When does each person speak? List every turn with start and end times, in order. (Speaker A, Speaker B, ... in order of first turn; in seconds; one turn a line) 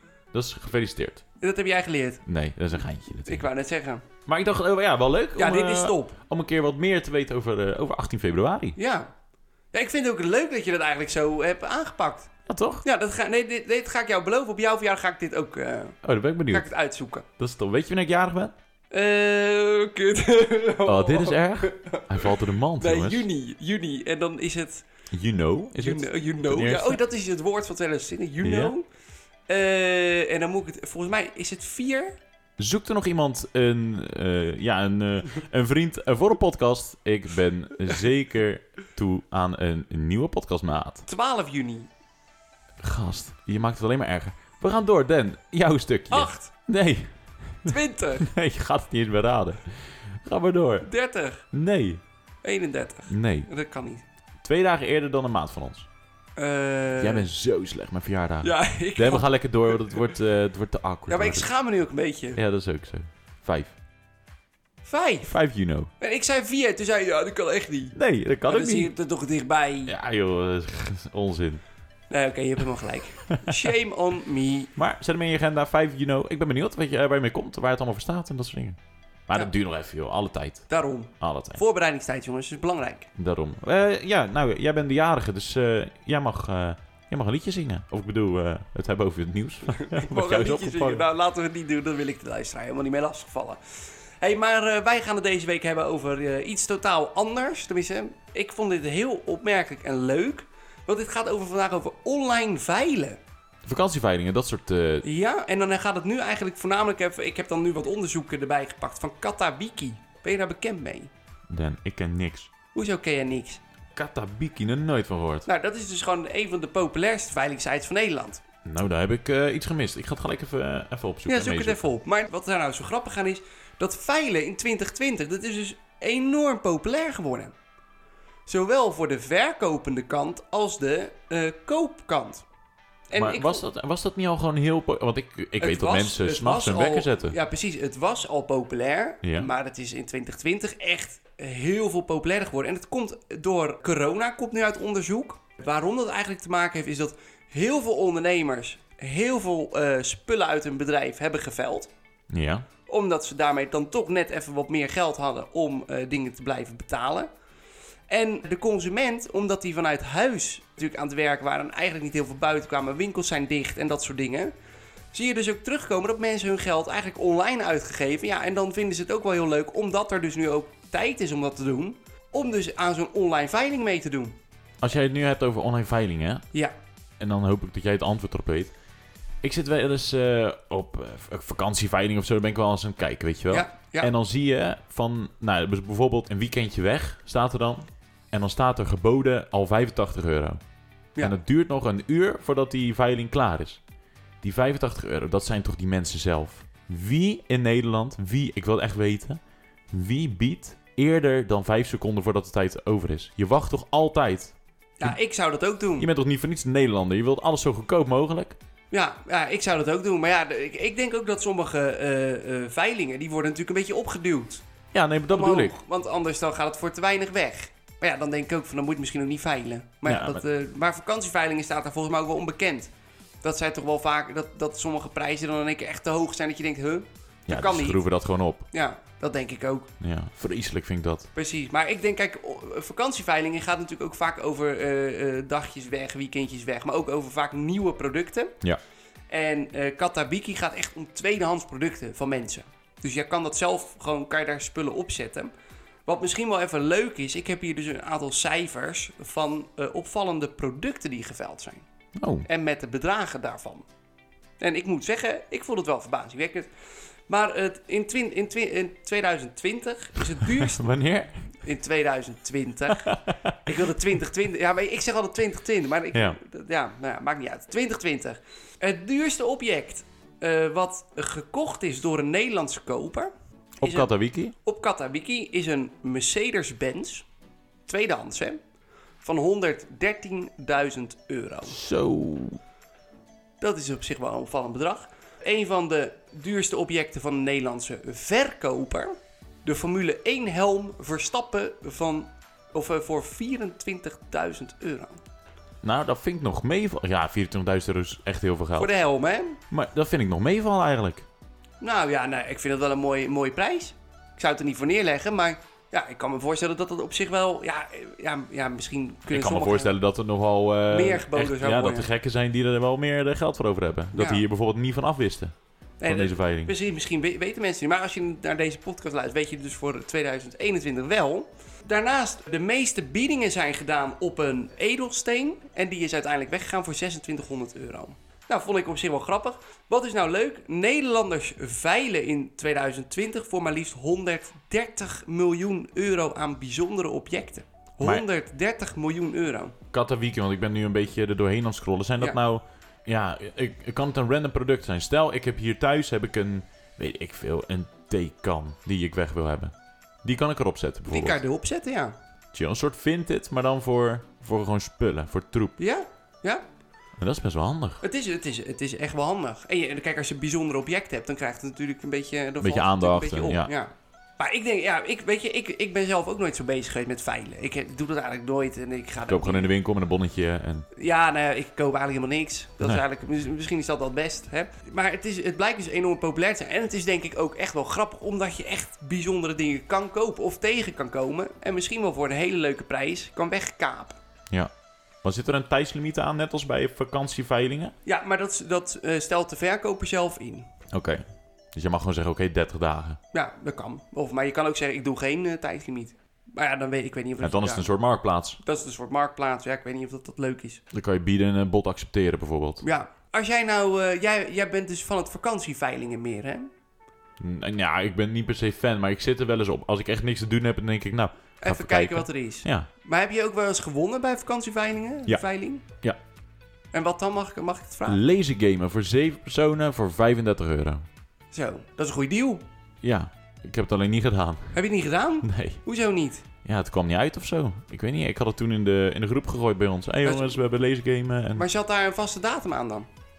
Speaker A: 0.3-1.2
Speaker B: 1.4-2.2
Speaker A: 2.2-3.5
Speaker B: 3.2-4.0
Speaker A: 4.2-8.8
Speaker B: 5.4-6.2
Speaker B: 8.8-9.1
Speaker B: 9.7-12.3
Speaker A: 12.4-12.8
Speaker B: 12.8-17.2
Speaker A: 16.0-16.7
Speaker A: 17.4-18.5
Speaker B: 18.9-24.9
Speaker A: 20.8-23.3
Speaker A: 25.1-27.0
Speaker B: 25.8-28.9
Speaker A: 28.4-28.7
Speaker B: 29.5-32.2
Speaker A: 32.6-41.0
Speaker B: 41.0-41.9
Speaker A: 42.8-50.9
Speaker B: 46.1-46.5
Speaker B: 47.6-48.3
Speaker B: 50.8-51.4
Speaker A: 51.5-52.0
Speaker B: 52.4-54.0
Speaker A: 53.1-53.5
Speaker A: 54.4-55.9
Speaker B: 56.4-57.3
Speaker A: 57.0-61.5
Speaker B: 58.4-60.0
Speaker B: 61.1-62.4
Speaker A: 62.4-63.8
Speaker B: 64.8-65.3
Speaker A: 65.2-65.9
Speaker B: 66.0-68.0
Speaker A: 67.9-68.9
Speaker B: 68.5-69.9
Speaker A: 69.9-71.6
Speaker B: 72.1-74.7
Speaker A: 73.3-73.7
Speaker A: 74.8-80.7
Speaker B: 80.7-83.1
Speaker A: 81.2-81.6
Speaker A: 83.2-91.0
Speaker B: 89.7-93.6
Speaker B: 94.2-103.2
Speaker A: 103.6-105.0
Speaker B: 105.0-111.1
Speaker A: 111.5-112.5
Speaker B: 112.7-113.6
Speaker A: 113.9-115.5
Speaker B: 115.5-118.4
Speaker A: 118.6-121.9
Speaker B: 121.3-127.5
Speaker B: 128.5-132.4
Speaker B: 133.1-133.6
Speaker A: 133.1-137.3
Speaker B: 135.6-151.9
Speaker A: 139.2-139.5
Speaker A: 152.3-152.7
Speaker B: 152.9-157.3
Speaker B: 158.1-164.5
Speaker B: 165.1-174.4
Speaker A: 174.8-176.4
Speaker A: 177.2-178.7
Speaker A: 179.4-190.6
Speaker B: 183.5-184.1
Speaker A: 191.2-193.8
Speaker A: 194.4-205.2
Speaker B: 205.0-206.1
Speaker A: 206.0-208.6
Speaker B: 208.9-214.6
Speaker A: 214.9-215.7
Speaker B: 215.3-222.9
Speaker A: 220.0-220.4
Speaker B: 223.4-228.0
Speaker A: 227.5-228.7
Speaker B: 228.7-229.9
Speaker A: 230.0-231.3
Speaker B: 231.3-238.6
Speaker B: 239.3-245.5
Speaker B: 246.1-251.8
Speaker A: 252.2-252.5
Speaker B: 252.4-253.8
Speaker B: 254.6-256.7
Speaker B: 257.3-260.8
Speaker A: 260.3-261.3
Speaker B: 261.6-263.1
Speaker A: 263.0-263.8
Speaker B: 263.6-273.3
Speaker A: 266.1-266.4
Speaker A: 273.8-274.5
Speaker B: 273.8-274.1
Speaker B: 274.6-277.3
Speaker B: 277.9-278.6
Speaker B: 279.2-281.8
Speaker A: 281.7-282.6
Speaker B: 283.6-295.2
Speaker A: 295.8-298.9
Speaker B: 298.8-299.6
Speaker A: 299.7-301.2
Speaker B: 301.8-309.9
Speaker A: 309.3-315.5
Speaker B: 310.9-312.1
Speaker B: 314.1-314.4
Speaker B: 316.0-339.8
Speaker A: 316.1-316.7
Speaker A: 339.9-351.4
Speaker B: 351.1-352.1
Speaker A: 352.5-355.8
Speaker B: 355.8-356.6
Speaker A: 357.2-358.0
Speaker B: 358.0-369.7
Speaker A: 362.6-363.7
Speaker A: 369.3-370.9
Speaker B: 370.9-384.1
Speaker A: 385.2-387.9
Speaker B: 388.0-390.7
Speaker A: 390.9-391.2
Speaker A: 391.7-393.2
Speaker B: 393.3-397.9
Speaker A: 397.4-398.6
Speaker B: 398.6-400.8
Speaker A: 400.9-402.8
Speaker B: 402.8-406.7
Speaker A: 407.4-412.9
Speaker B: 411.6-415.8
Speaker B: 416.9-418.2
Speaker A: 418.1-421.1
Speaker B: 421.5-422.6
Speaker A: 423.0-424.8
Speaker B: 424.7-426.4
Speaker A: 425.4-425.8
Speaker A: 426.6-431.7
Speaker B: 430.2-430.6
Speaker B: 431.6-433.1